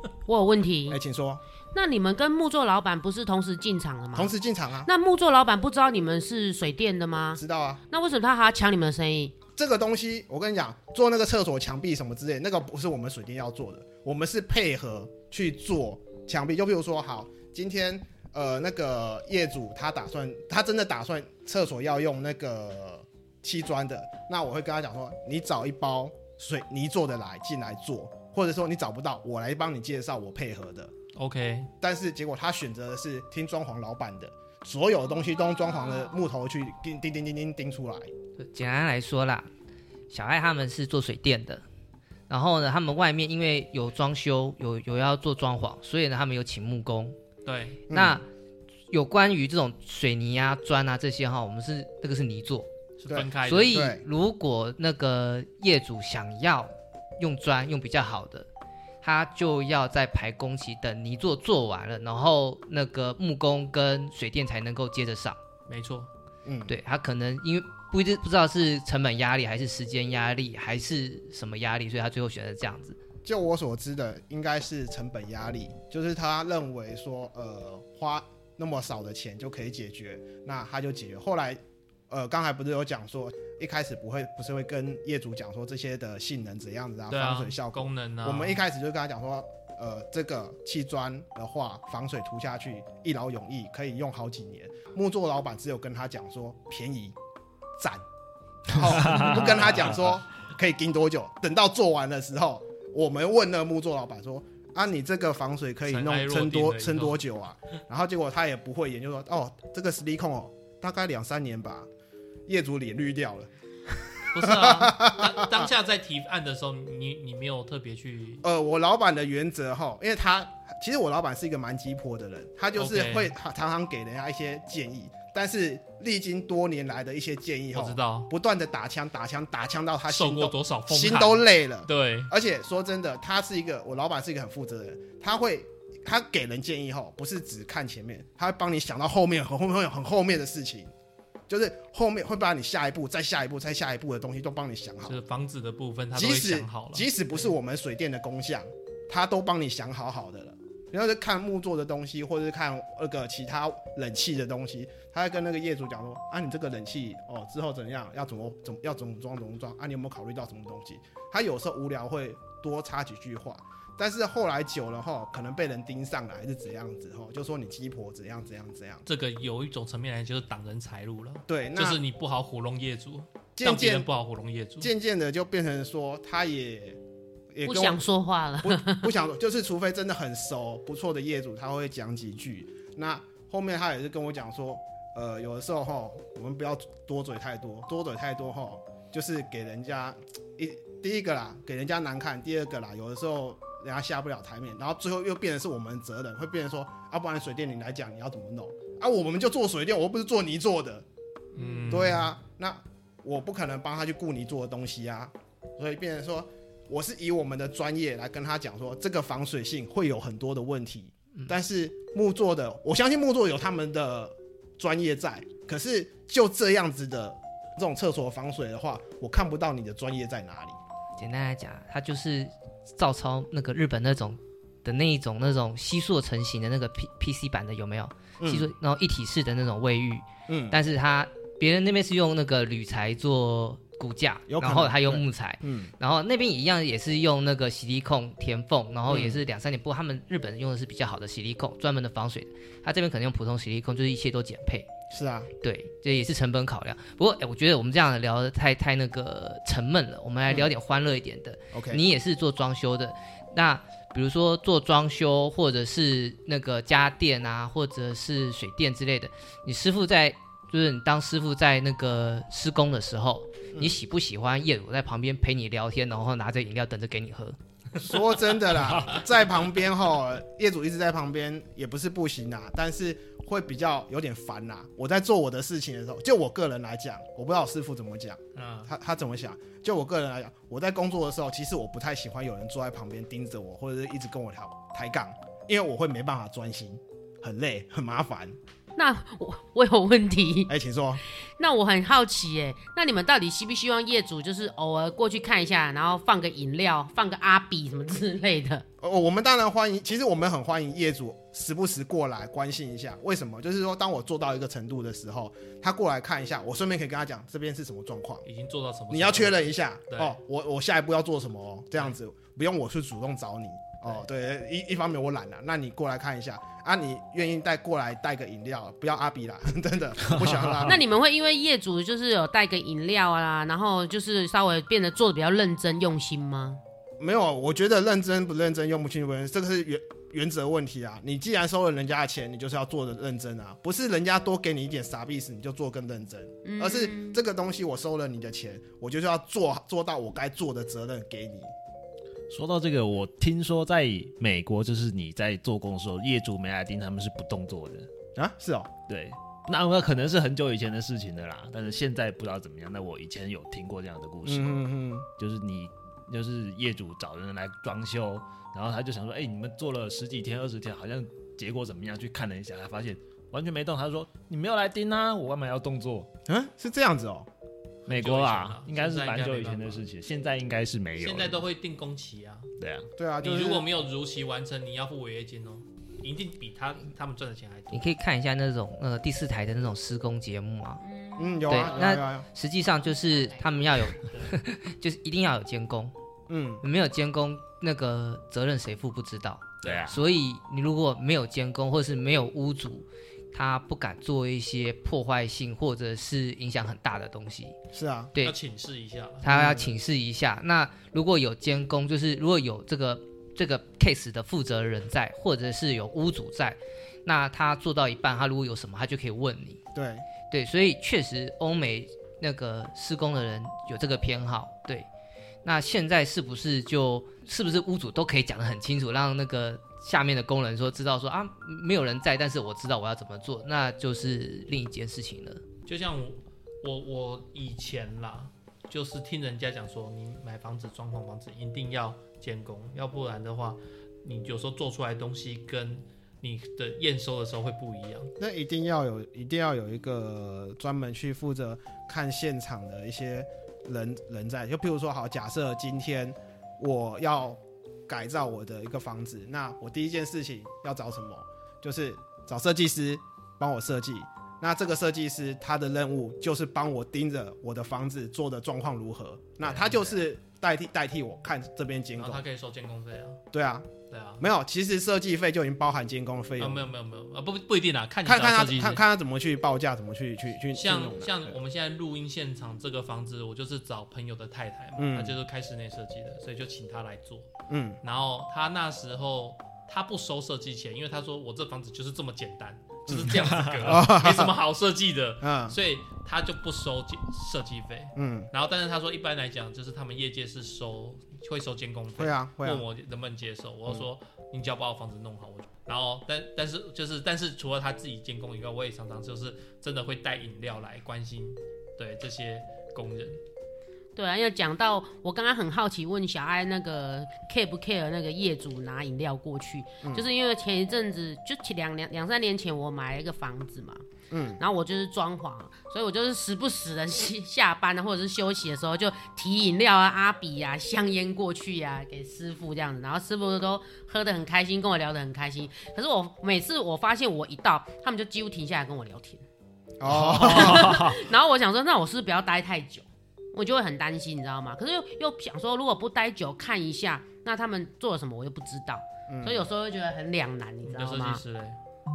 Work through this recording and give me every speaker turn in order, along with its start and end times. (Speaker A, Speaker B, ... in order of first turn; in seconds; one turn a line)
Speaker A: 0.3-1.0
Speaker B: 0.9-1.4
Speaker A: 1.7-4.3
Speaker B: 4.1-4.9
Speaker A: 4.8-9.3
Speaker B: 7.3-7.8
Speaker B: 9.6-30.9
Speaker C: 31.1-31.7
Speaker B: 31.8-38.1
Speaker A: 35.8-36.0
Speaker D: 38.5-39.5
Speaker D: 40.1-41.6
Speaker D: 42.3-47.2
Speaker C: 47.5-47.8
Speaker B: 47.9-48.2
Speaker D: 47.9-48.3
Speaker D: 48.9-52.7
Speaker C: 53.0-53.9
Speaker B: 53.1-54.0
Speaker D: 53.4-58.5
Speaker D: 59.0-65.4
Speaker C: 65.7-66.1
Speaker B: 66.4-66.8
Speaker D: 66.7-73.0
Speaker B: 73.2-97.1
Speaker C: 87.1-88.6
Speaker B: 97.8-98.0
Speaker B: 98.7-111.9
Speaker E: 99.0-99.7
Speaker C: 105.9-107.2
Speaker B: 112.5-113.5
Speaker C: 114.3-118.4
Speaker B: 114.3-115.7
Speaker B: 118.4-140.9
Speaker C: 122.7-123.3
Speaker C: 127.7-128.3
Speaker C: 130.1-132.3
Speaker B: 141.5-145.2
Speaker C: 145.1-147.1
Speaker B: 146.1-169.0
Speaker C: 169.1-174.9
Speaker B: 171.5-172.0
Speaker B: 173.6-174.1
Speaker B: 174.8-177.0
Speaker B: 177.5-178.0
Speaker A: 177.6-179.1
Speaker B: 178.6-201.0
Speaker A: 201.5-202.2
Speaker C: 201.5-202.3
Speaker B: 201.9-220.8
Speaker D: 221.2-244.9
Speaker B: 228.4-228.7
Speaker B: 230.5-230.8
Speaker B: 234.5-235.9
Speaker B: 239.1-239.4
Speaker B: 245.1-245.5
Speaker D: 245.6-267.6
Speaker B: 251.7-252.0
Speaker B: 268.0-288.6
Speaker C: 278.5-278.9
Speaker A: 289.0-290.7
Speaker B: 290.7-291.2
Speaker A: 291.6-298.8
Speaker B: 299.0-308.4
Speaker C: 308.4-310.4
Speaker B: 309.1-321.0
Speaker E: 320.3-320.9
Speaker A: 320.9-326.8
Speaker B: 327.2-341.7
Speaker A: 336.6-337.4
Speaker E: 342.5-348.1
Speaker B: 348.3-348.9
Speaker E: 349.1-354.8
Speaker B: 354.4-355.3
Speaker E: 355.4-366.3
Speaker B: 366.5-367.5
Speaker C: 368.0-370.1
Speaker E: 368.1-371.6
Speaker C: 371.2-372.7
Speaker E: 372.8-373.1
Speaker B: 373.2-373.9
Speaker C: 373.4-378.1
Speaker D: 377.9-381.0
Speaker A: 381.0-382.1
Speaker B: 381.4-382.4
Speaker D: 381.7-386.1
Speaker A: 383.0-383.9
Speaker C: 384.3-384.6
Speaker B: 386.5-386.8
Speaker D: 386.8-397.8
Speaker C: 389.8-390.1
Speaker E: 389.8-390.2
Speaker B: 397.9-398.3
Speaker C: 398.4-399.4
Speaker D: 399.4-409.8
Speaker B: 399.4-399.9
Speaker B: 409.9-410.2
Speaker D: 410.5-415.1
Speaker D: 415.6-425.6
Speaker C: 425.9-438.3
Speaker B: 438.4-462.4
Speaker C: 459.6-460.2
Speaker C: 462.1-463.4
Speaker B: 463.5-463.9
Speaker C: 464.1-464.4
Speaker B: 464.4-466.9
Speaker C: 466.6-469.0
Speaker B: 468.2-471.6
Speaker C: 470.7-477.5
Speaker B: 475.0-475.4
Speaker B: 477.7-478.0
Speaker C: 478.0-503.4
Speaker B: 483.1-484.5
Speaker E: 483.5-483.8
Speaker B: 485.4-485.8
Speaker B: 488.1-488.5
Speaker B: 492.2-492.8
Speaker A: 504.1-514.0
Speaker B: 514.3-514.6
Speaker A: 514.6-529.4
Speaker B: 530.0-531.0
Speaker E: 530.1-531.2
Speaker A: 530.1-541.4
Speaker B: 539.3-539.7
Speaker C: 540.9-541.8